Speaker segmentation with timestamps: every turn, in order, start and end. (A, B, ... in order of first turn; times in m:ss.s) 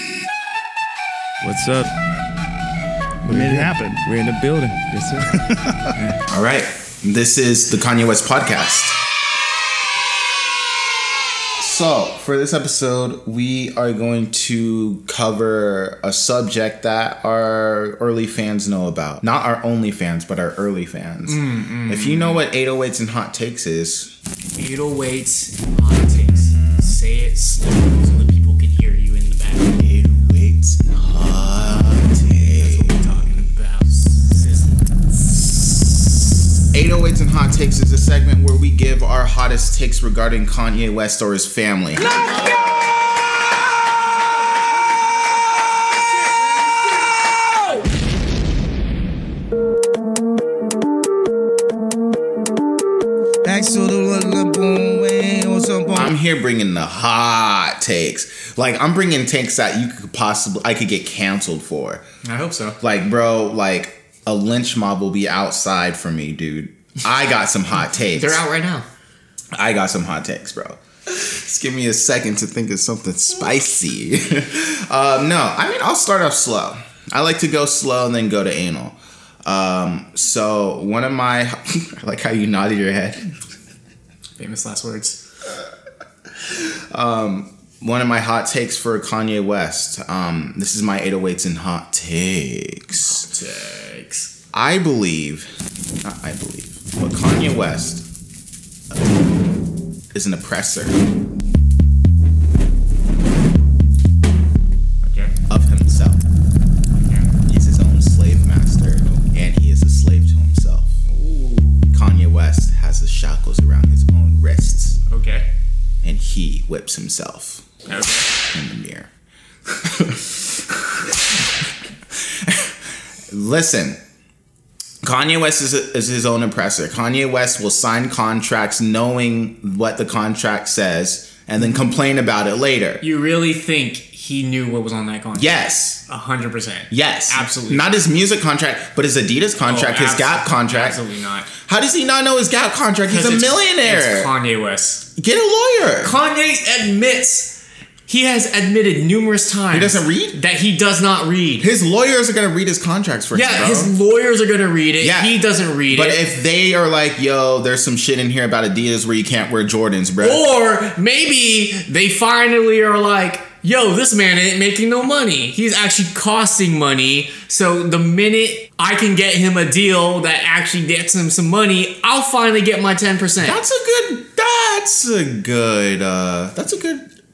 0:01.4-0:01.9 A
0:03.2-0:06.2 A
0:03.3-0:03.7 B
0:06.3-0:09.0 B
0:11.6-0:24.1 B
0:21.2-0:22.4 C
0:24.6-0:29.8 C
0:26.5-0:26.9 B
0:29.8-0:33.1 B
0:32.5-0:35.9 C
0:36.7-0:42.2 B
0:42.0-0:42.4 C
0:53.5-0:53.7 B
0:55.4-1:02.0 B
1:02.2-1:02.8 C
1:02.8-1:08.4 B
1:08.1-1:08.9 C
1:09.5-1:23.2 B
1:24.4-1:25.2 C
1:26.5-1:33.2 B
1:33.1-1:34.3 C
1:34.5-1:35.5 B
1:36.0-1:38.0 B
1:40.1-1:41.0 B
1:45.0-1:45.3 C
1:45.5-1:46.2 B
1:47.0-1:47.3 C
1:47.4-1:51.0 B
1:51.1-1:51.9 C
1:51.9-1:55.0 B
1:55.1-1:55.5 C
1:56.0-1:57.6 B
1:57.8-1:58.3 C
1:58.5-1:59.1 B
1:59.8-2:00.4 B
2:02.3-2:02.7 B
2:03.3-2:04.0 B
2:05.0-2:13.0 B
2:13.0-2:15.5 C
2:15.4-2:16.0 B
2:16.1-2:18.0 C
2:16.9-2:21.0 B
2:19.6-2:21.5 C
2:21.6-2:24.3 B
2:23.0-2:25.0 C
2:25.2-2:26.1 B
2:26.0-2:31.7 C
2:29.7-2:30.4 B
2:31.6-2:33.9 B
2:33.3-2:36.2 C
2:35.0-2:35.3 B
2:35.9-2:40.4 B
2:40.2-2:53.6 C
2:53.4-2:57.0 B